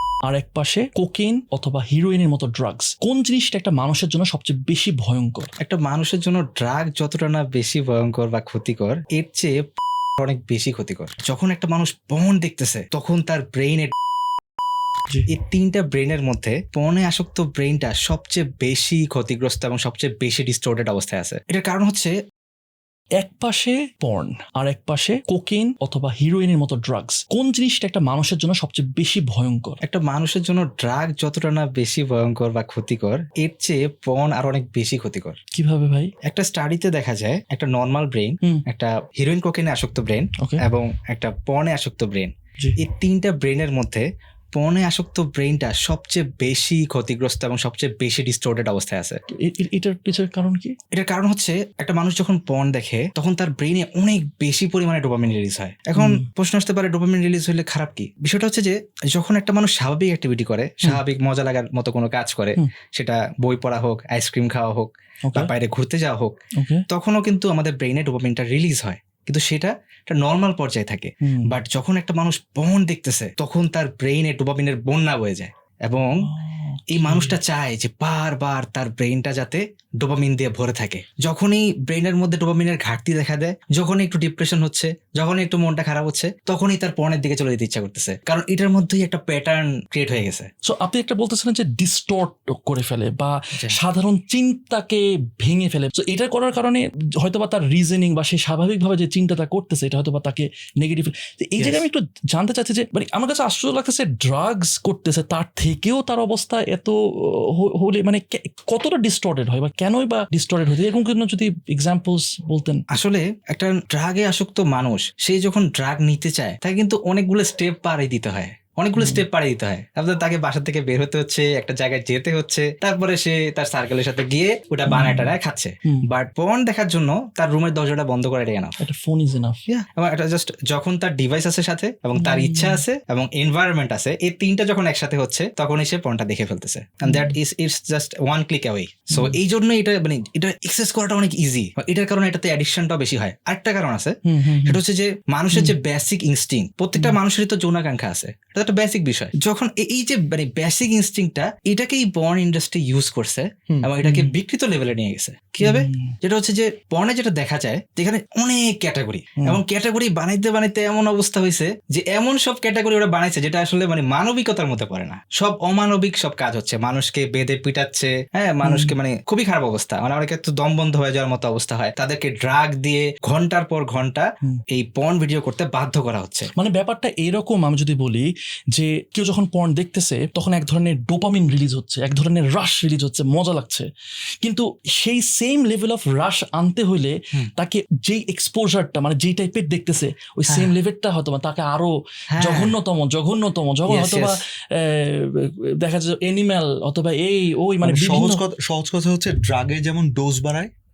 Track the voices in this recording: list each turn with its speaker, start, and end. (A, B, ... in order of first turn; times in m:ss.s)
0:00.2-0:05.5 A
0:05.6-0:09.6 B
0:10.2-0:13.9 B
0:15.3-0:22.1 B
0:23.2-0:29.8 A
0:29.8-0:35.4 B
0:35.5-0:36.1 A
0:36.3-0:49.2 B
0:49.3-0:50.7 A
0:50.9-1:06.3 B
0:56.0-0:56.2 A
1:05.2-1:05.5 A
1:06.6-1:06.8 A
1:06.9-1:16.2 B
1:11.2-1:11.5 A
1:16.2-1:17.4 A
1:16.9-1:30.5 B
1:30.6-1:52.8 A
1:41.6-1:41.8 B
1:52.9-2:08.8 B
1:59.0-1:59.2 A
2:04.8-2:05.3 A
2:08.8-2:09.6 A
2:09.7-2:56.5 B
2:12.2-2:12.8 A
2:17.0-2:17.3 A
2:19.1-2:19.4 A
2:24.2-2:24.8 A
2:34.0-2:34.4 A
2:35.6-2:36.1 A
2:39.4-2:39.6 A
2:48.6-2:49.0 A
2:56.6-3:03.9 A
3:04.4-3:18.4 A
3:12.4-3:12.7 B
3:13.9-3:14.4 B
3:17.8-3:20.7 C